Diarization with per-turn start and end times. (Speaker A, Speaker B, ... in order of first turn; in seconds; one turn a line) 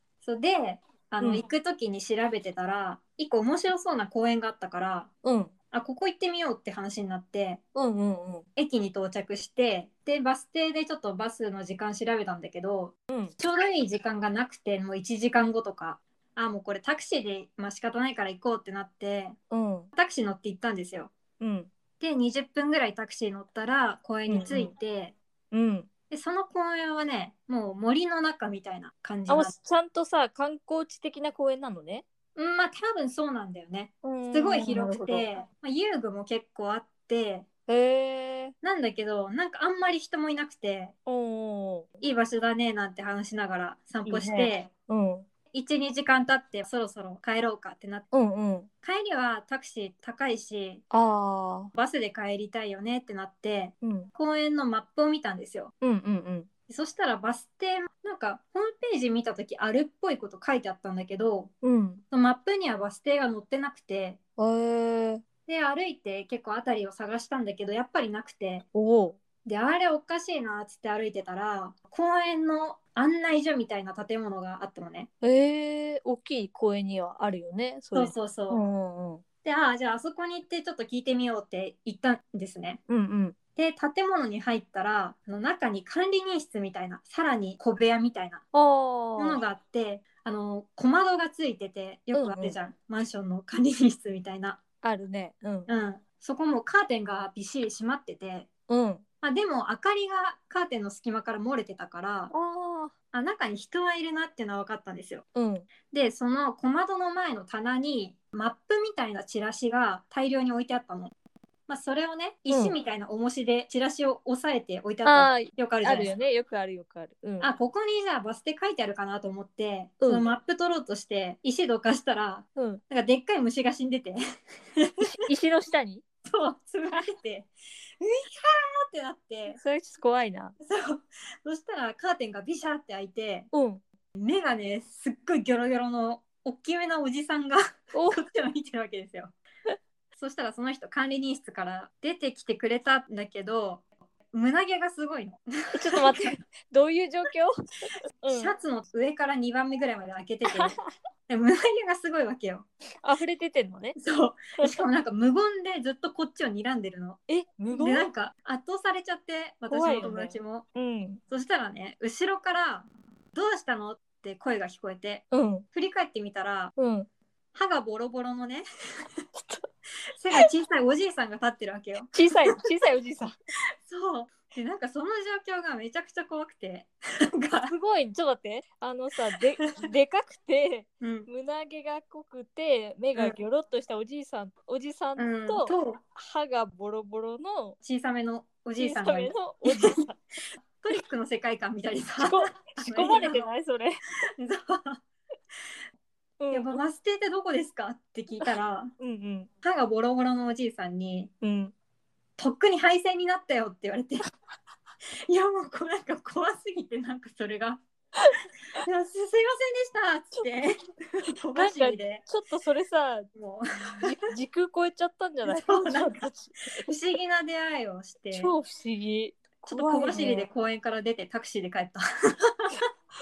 Speaker A: 0.2-5.1
Speaker B: 1.2-1.5
Speaker B: 5.2-5.5
Speaker A: 5.7-7.6
Speaker B: 7.8-8.4
Speaker A: 8.6-19.4
Speaker B: 19.5-19.9
Speaker A: 19.9-21.1
Speaker B: 21.4-21.7
Speaker A: 22.0-25.1
Speaker B: 24.3-24.7
Speaker B: 25.5-25.9
Speaker A: 26.1-29.6
Speaker B: 29.3-32.0
Speaker A: 32.4-37.4
Speaker B: 34.0-35.3
Speaker B: 37.7-38.5
Speaker A: 38.6-40.9
Speaker B: 41.1-41.9
Speaker A: 42.0-44.7
Speaker B: 44.0-45.2
Speaker A: 45.5-48.1
Speaker B: 48.1-48.7
Speaker A: 48.8-50.8
Speaker B: 50.9-51.7
Speaker A: 51.7-55.7
Speaker B: 53.8-54.1
Speaker B: 55.8-56.5
Speaker A: 56.7-61.5
Speaker B: 61.6-62.0
Speaker A: 62.1-64.2
Speaker B: 64.4-65.2
Speaker A: 65.5-68.7
Speaker B: 68.7-69.2
Speaker A: 69.5-75.1
Speaker B: 75.2-79.2
Speaker A: 77.9-78.6
Speaker A: 79.4-82.8
Speaker B: 82.9-83.3
Speaker A: 83.6-88.4
Speaker B: 88.5-89.4
Speaker A: 89.2-94.6
Speaker B: 92.1-92.6
Speaker B: 94.8-95.7
Speaker A: 95.7-98.5
Speaker B: 98.7-99.0
Speaker A: 99.2-102.3
Speaker B: 102.3-102.9
Speaker A: 103.1-105.2
Speaker B: 105.3-105.7
Speaker A: 105.9-111.1
Speaker A: 111.7-116.1
Speaker B: 112.5-112.8
Speaker B: 115.0-117.5
Speaker A: 117.4-124.2
Speaker B: 120.0-120.3
Speaker B: 122.6-122.8
Speaker A: 124.8-125.1
Speaker B: 125.0-126.0
Speaker A: 126.3-127.5
Speaker A: 128.0-129.6
Speaker B: 129.5-130.6
Speaker A: 130.6-133.5
Speaker B: 133.5-133.8
Speaker A: 134.2-139.3
Speaker B: 137.9-138.2
Speaker A: 140.1-146.3
Speaker B: 145.7-148.6
Speaker A: 148.3-150.8
Speaker B: 150.5-150.7
Speaker A: 151.3-152.7
Speaker B: 153.0-154.0
Speaker A: 154.0-160.7
Speaker B: 157.3-158.1
Speaker B: 159.7-161.2
Speaker A: 161.3-166.8
Speaker B: 165.3-165.6
Speaker B: 166.8-167.1
Speaker A: 167.5-168.6
Speaker B: 169.3-169.7
Speaker A: 170.1-172.5
Speaker B: 172.1-173.3
Speaker A: 173.8-177.7
Speaker B: 177.6-187.8
Speaker A: 181.0-181.3
Speaker A: 185.2-186.0
Speaker A: 187.8-190.1
Speaker B: 188.8-190.2
Speaker A: 190.8-193.5
Speaker B: 192.2-194.0
Speaker A: 194.4-195.0
Speaker B: 196.4-196.8
Speaker A: 196.5-198.9
Speaker B: 198.4-199.5
Speaker A: 199.6-201.3
Speaker B: 201.4-201.7
Speaker A: 202.4-204.2
Speaker A: 205.3-207.8
Speaker A: 208.8-212.2
Speaker B: 211.5-216.8
Speaker A: 213.3-214.1
Speaker A: 215.4-216.3
Speaker A: 216.8-218.5
Speaker B: 218.3-220.5
Speaker A: 219.6-222.0